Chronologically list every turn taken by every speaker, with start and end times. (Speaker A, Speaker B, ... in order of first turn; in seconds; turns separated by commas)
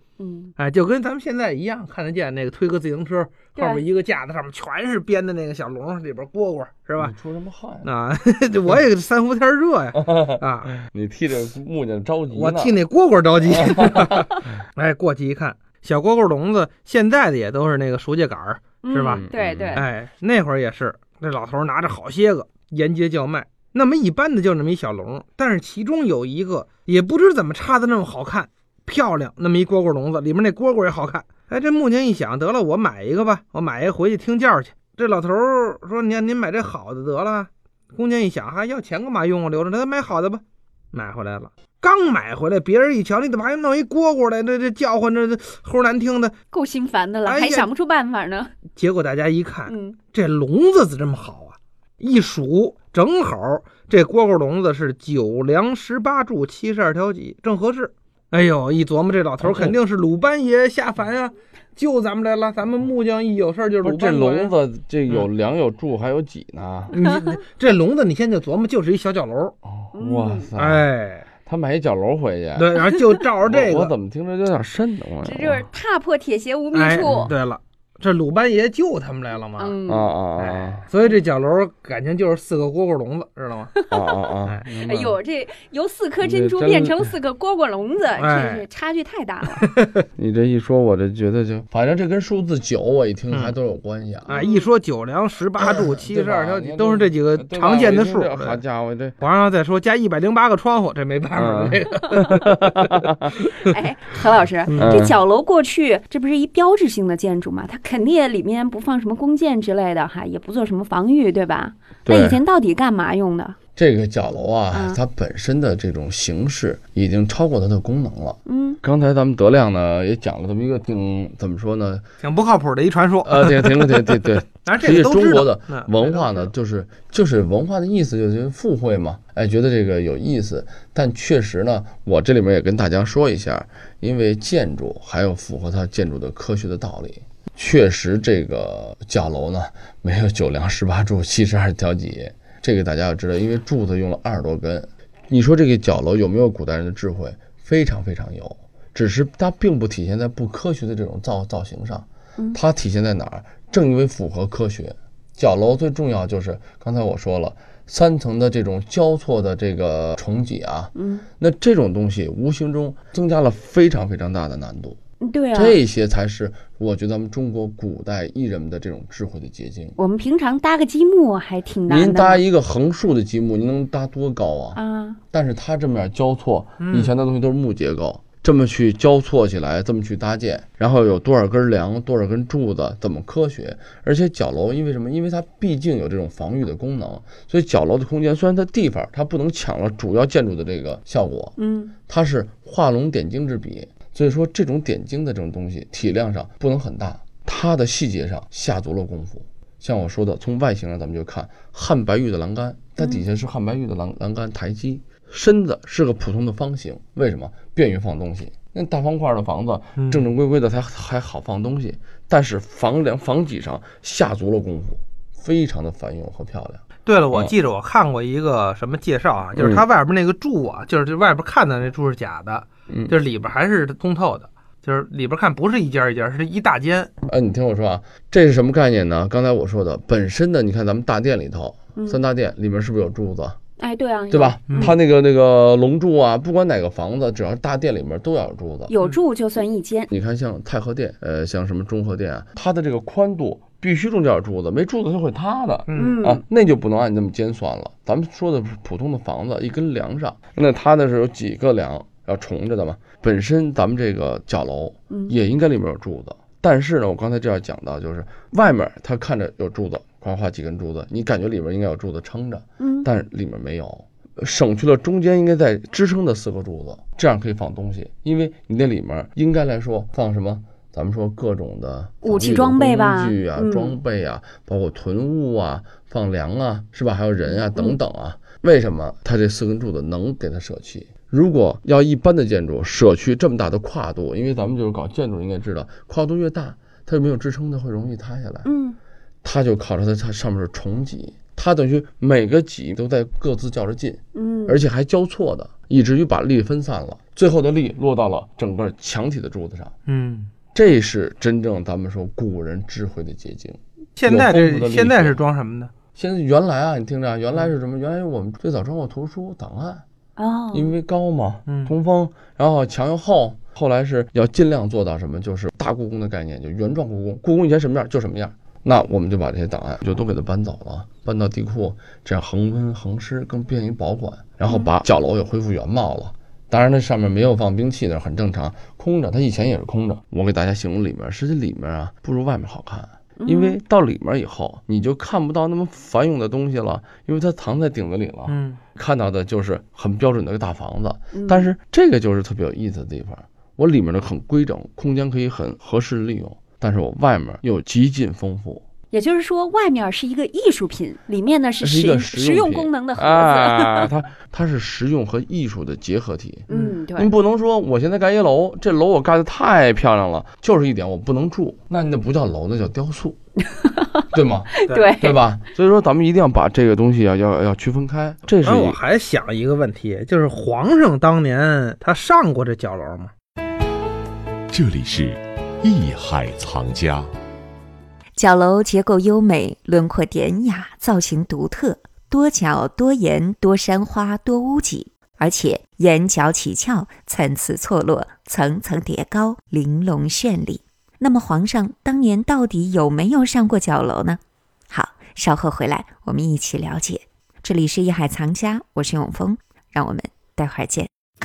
Speaker A: 0.2-0.5, Speaker B: 0.6-7.2, Speaker A: 3.6-3.8, Speaker C: 7.0-7.9, Speaker B: 7.8-10.7, Speaker C: 10.0-12.8, Speaker B: 12.3-19.2, Speaker A: 18.8-19.9, Speaker C: 19.0-19.8, Speaker B: 19.8-46.3, Speaker A: 46.5-48.5, Speaker B: 47.2-47.7, Speaker B: 48.7-64.5, Speaker A: 49.7-50.0, Speaker C: 59.4-59.8, Speaker C: 63.8-66.9, Speaker B: 66.9-69.5, Speaker C: 69.7-70.9, Speaker A: 70.0-70.5, Speaker B: 70.6-71.2, Speaker C: 71.5-72.8, Speaker B: 72.6-73.9, Speaker C: 73.5-75.7, Speaker A: 75.2-77.3, Speaker B: 76.7-79.8, Speaker C: 77.0-77.3, Speaker A: 79.6-80.1, Speaker C: 79.9-80.9, Speaker B: 80.4-83.7, Speaker A: 83.7-89.6, Speaker C: 83.9-85.2, Speaker C: 86.2-87.0, Speaker B: 88.2-88.6, Speaker B: 89.6-89.9, Speaker C: 90.2-94.4, Speaker B: 94.2-98.6, Speaker A: 94.3-94.7, Speaker C: 95.8-99.2, Speaker B: 99.2-102.5, Speaker C: 101.3-103.3, Speaker A: 103.6-113.6, Speaker C: 104.7-105.2, Speaker C: 112.1-112.4, Speaker C: 113.8-122.0, Speaker A: 114.7-115.0, Speaker A: 118.5-118.8, Speaker B: 122.2-126.5, Speaker C: 123.2-165.0, Speaker A: 160.9-161.2, Speaker A: 165.2-165.8, Speaker C: 165.5-169.9, Speaker A: 170.0-172.4, Speaker C: 171.9-174.8, Speaker A: 174.8-175.2, Speaker C: 175.3-217.5, Speaker B: 176.8-177.1, Speaker A: 191.6-191.9, Speaker B: 210.0-210.3, Speaker B: 217.1-227.1, Speaker C: 219.6-219.8, Speaker C: 227.3-233.6, Speaker A: 231.9-232.2, Speaker A: 233.8-234.9, Speaker C: 234.3-238.9, Speaker B: 234.7-234.9, Speaker A: 238.9-240.1, Speaker C: 240.1-288.7, Speaker B: 245.9-246.1, Speaker A: 246.0-246.4, Speaker A: 262.8-263.1, Speaker A: 272.2-273.9, Speaker A: 277.5-278.0, Speaker A: 288.6-289.0, Speaker C: 289.4-299.9, Speaker A: 294.4-294.8, Speaker B: 300.1-300.5, Speaker C: 300.7-305.4, Speaker B: 304.2-305.9, Speaker C: 306.1-310.0, Speaker A: 310.4-310.9, Speaker C: 310.7-348.8, Speaker B: 311.7-311.9, Speaker A: 333.4-333.8, Speaker B: 338.5-338.8, Speaker A: 341.3-341.7, Speaker A: 349.1-354.1, Speaker C: 351.8-363.4, Speaker A: 356.7-357.3, Speaker A: 363.7-364.1, Speaker C: 364.3-369.0, Speaker A: 364.7-365.4, Speaker B: 368.6-373.3, Speaker D: 374.7-377.3, Speaker E: 378.4-401.1